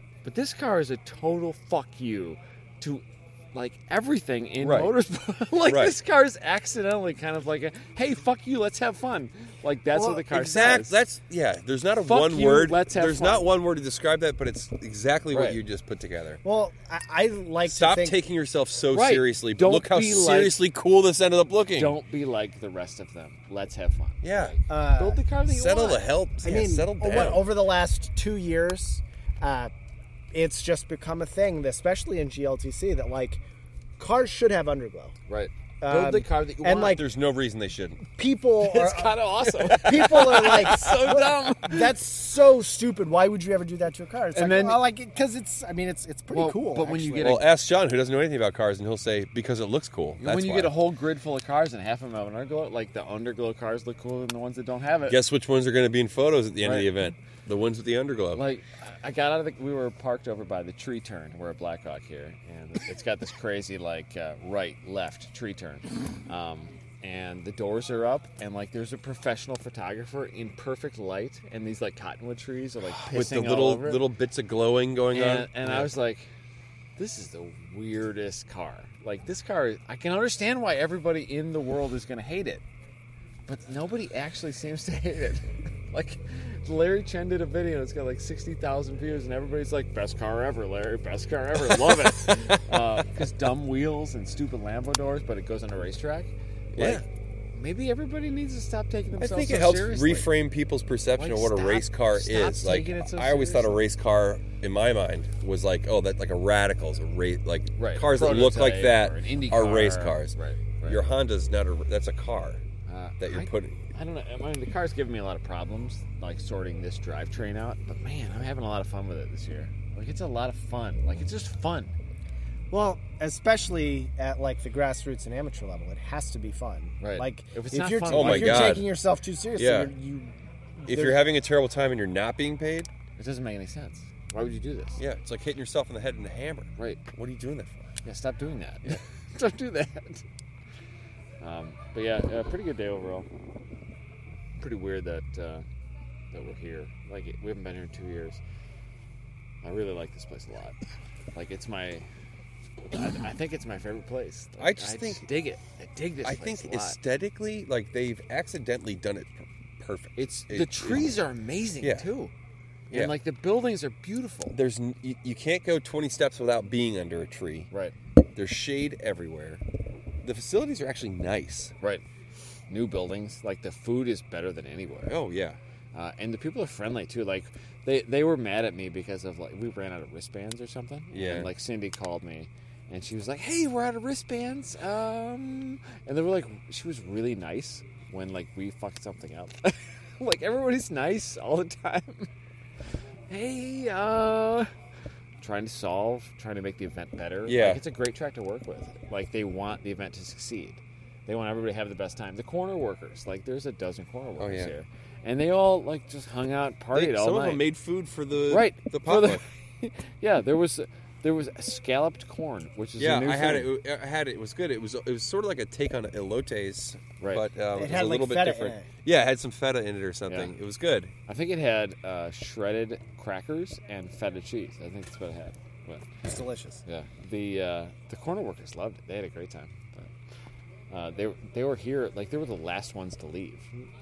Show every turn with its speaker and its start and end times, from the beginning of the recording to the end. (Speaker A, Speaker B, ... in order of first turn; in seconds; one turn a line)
Speaker A: 0.2-11.0
Speaker B: 4.6-4.9
Speaker B: 5.6-6.0
Speaker C: 9.9-10.2
Speaker B: 10.3-16.4
Speaker A: 12.0-13.5
Speaker A: 15.3-15.6
Speaker C: 16.4-18.1
Speaker B: 17.6-22.0
Speaker A: 18.9-20.6
Speaker A: 21.7-26.0
Speaker B: 24.2-24.5
Speaker C: 24.7-25.2
Speaker B: 25.4-27.5
Speaker C: 26.4-29.7
Speaker C: 30.3-33.4
Speaker C: 34.0-35.1
Speaker A: 35.3-37.0
Speaker C: 35.8-37.0
Speaker B: 36.8-38.1
Speaker C: 38.1-47.4
Speaker A: 38.6-41.9
Speaker B: 40.0-41.1
Speaker A: 44.3-44.8
Speaker A: 46.3-47.5
Speaker B: 47.2-50.8
Speaker A: 50.2-55.2
Speaker B: 55.1-58.4
Speaker A: 56.6-56.9
Speaker A: 58.3-74.0
Speaker B: 73.0-75.9
Speaker A: 75.1-76.3
Speaker A: 77.0-82.6
Speaker A: 83.5-100.3
Speaker B: 92.3-92.6
Speaker B: 96.7-97.0
Speaker B: 99.2-112.6
Speaker A: 101.2-103.8
Speaker A: 107.8-111.0
Speaker A: 112.8-122.0
Speaker B: 113.2-113.8
Speaker C: 122.7-131.2
Speaker A: 127.0-128.8
Speaker B: 128.1-128.9
Speaker B: 129.6-129.9
Speaker B: 130.8-132.9
Speaker A: 133.2-135.0
Speaker B: 135.0-137.9
Speaker A: 136.8-137.0
Speaker A: 138.0-140.2
Speaker A: 141.4-143.3
Speaker A: 144.6-145.6
Speaker A: 146.3-148.4
Speaker A: 149.6-150.8
Speaker A: 151.3-152.1
Speaker A: 152.9-157.0
Speaker B: 154.6-155.2
Speaker B: 156.2-161.2
Speaker A: 160.2-162.3
Speaker B: 161.8-162.1
Speaker A: 162.9-164.6
Speaker B: 164.5-167.7
Speaker B: 168.3-169.6
Speaker B: 170.2-171.7
Speaker A: 171.8-172.0
Speaker A: 172.7-175.2
Speaker B: 175.1-175.6
Speaker A: 175.9-192.3
Speaker B: 181.1-181.5
Speaker A: 193.3-194.7
Speaker A: 195.4-207.6
Speaker B: 197.4-197.8
Speaker B: 204.4-204.7
Speaker B: 206.9-209.4
Speaker A: 208.5-213.7
Speaker B: 213.0-221.1
Speaker A: 217.2-217.4
Speaker C: 217.7-218.9
Speaker A: 221.3-226.1
Speaker C: 226.2-226.8
Speaker A: 226.8-230.1
Speaker A: 230.9-233.7